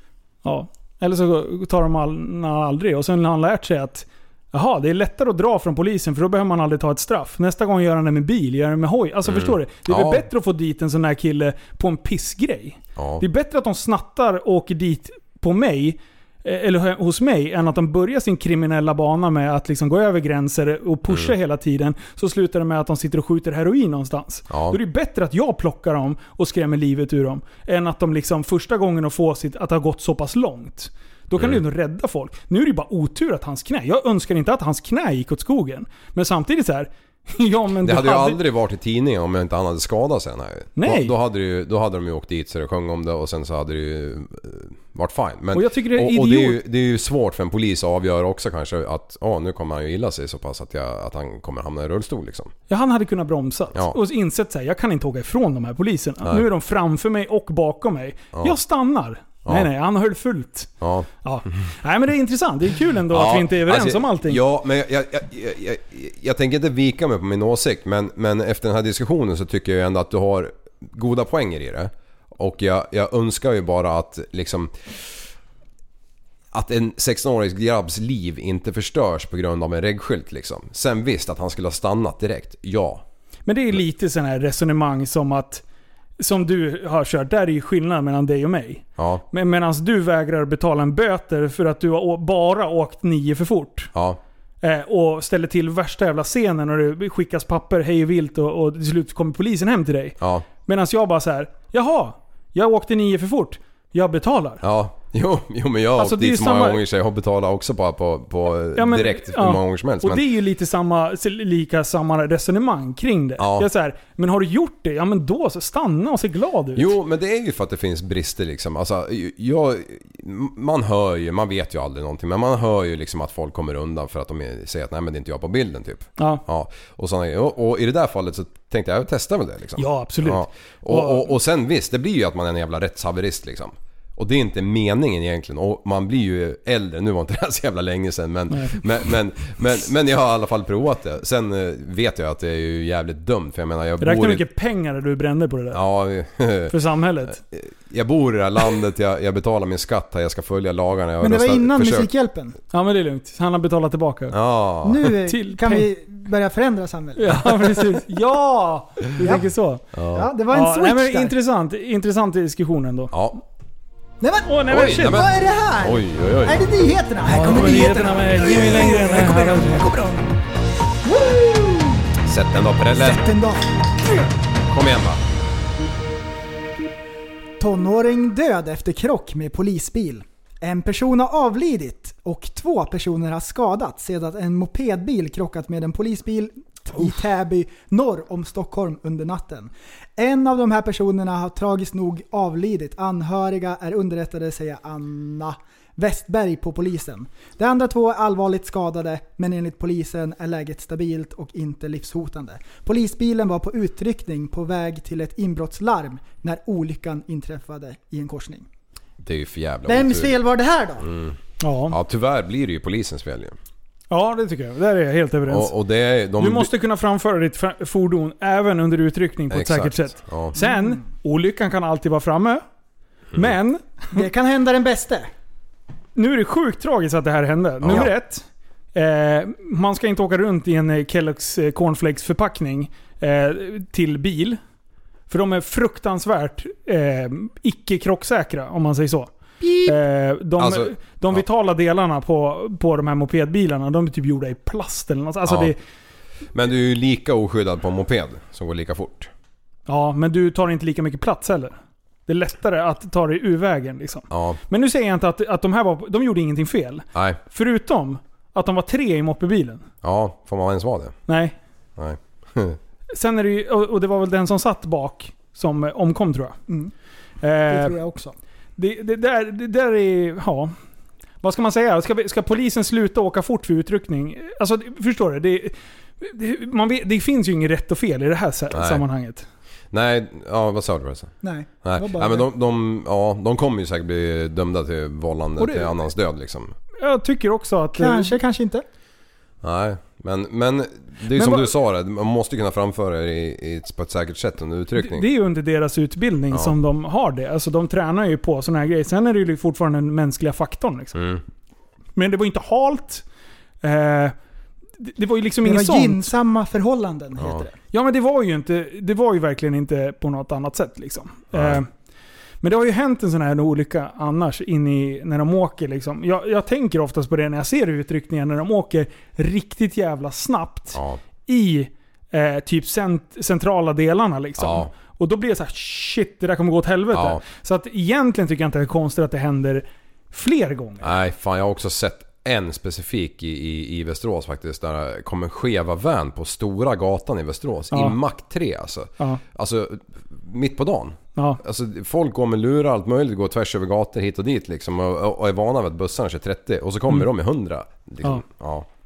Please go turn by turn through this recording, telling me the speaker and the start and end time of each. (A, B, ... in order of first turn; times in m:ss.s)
0:00.4-0:38.4 A
0:09.2-0:10.3 B
0:13.0-0:13.2 B
0:21.1-0:21.3 B
0:24.5-0:24.8 B
0:31.4-0:31.6 B
0:37.8-0:52.5 B
0:40.8-0:41.1 A
0:45.5-0:46.6 A
0:52.7-1:00.7 A
1:00.8-1:01.1 B
1:01.2-1:04.4 A
1:03.1-1:14.7 B
1:16.5-1:23.0 B
1:23.4-1:25.6 A
1:26.2-1:33.9 A
1:29.0-1:29.2 B
1:33.9-1:34.2 B
1:34.6-1:44.6 A
1:40.2-1:40.5 B
1:44.6-1:50.2 B
1:46.0-1:46.8 A
1:48.7-1:56.9 A
1:53.4-1:53.7 B
1:56.8-2:24.4 B
2:06.2-2:06.4 A
2:09.8-2:11.3 A
2:18.5-2:18.8 A
2:24.0-2:25.8 A
2:25.7-2:26.7 B
2:26.7-2:27.4 A
2:27.3-2:32.1 B
2:31.2-2:32.6 C
2:32.7-2:34.3 A
2:34.3-2:35.1 B
2:34.8-2:38.0 C
2:35.2-2:35.9 A
2:37.2-2:39.8 A
2:39.2-2:39.4 C
2:39.9-2:40.3 B
2:40.1-2:41.3 C
2:40.5-2:43.1 A
2:43.1-2:43.4 B
2:44.2-2:50.3 C
2:44.4-2:45.2 A
2:44.7-2:46.6 B
2:47.2-2:49.9 A
2:51.0-2:52.0 C
2:52.2-2:53.3 B
2:52.9-2:53.6 C
2:54.7-2:55.2 B
2:57.6-3:28.6 C
3:29.2-3:30.4 B
3:29.9-3:31.1 C
3:31.0-3:31.4 B
3:31.6-3:32.0 A
3:31.9-3:33.6 B
3:34.1-3:35.7 A
3:35.5-3:36.7 B
3:36.4-3:42.6 A
3:39.5-3:40.6 B
3:40.6-3:41.0 C
3:43.3-3:44.2 A
3:44.1-3:45.3 C
3:46.1-3:54.6 A
3:47.8-3:48.1 B
3:55.3-3:59.3 A
3:59.6-3:59.9 B
3:59.8-4:05.8 A
4:00.6-4:01.4 B
4:05.4-4:05.7 B
4:06.5-4:09.3 B
4:09.9-4:11.7 A
4:12.3-4:19.8 A
4:14.3-4:14.6 B
4:17.1-4:17.4 B
4:20.0-4:21.2 B
4:21.3-4:21.5 A
4:22.0-4:22.8 B
4:23.1-4:26.6 A
4:26.7-4:26.9 C
4:27.4-4:28.0 A
4:27.7-4:28.4 C
4:28.8-4:30.7 A
4:31.4-4:39.4 A
4:38.7-4:39.0 B
4:39.9-4:46.7 B
4:41.4-4:42.5 C
4:45.6-4:45.9 A
4:47.0-4:48.4 A
4:47.9-4:48.8 C
4:49.6-4:55.3 B
4:51.4-4:51.6 A
4:55.0-5:01.2 A
5:01.1-5:01.4 B
5:02.2-5:03.2 A
5:03.8-5:04.3 A
5:05.0-5:06.3 A
5:05.6-5:07.7 C
5:07.4-5:07.6 B
5:07.9-5:11.9 A
5:11.5-5:11.8 B
5:12.6-5:31.1 A
5:20.9-5:21.2 B
5:24.6-5:24.9 B
5:27.1-5:27.4 B
5:31.0-5:48.9 B
5:37.9-5:38.2 A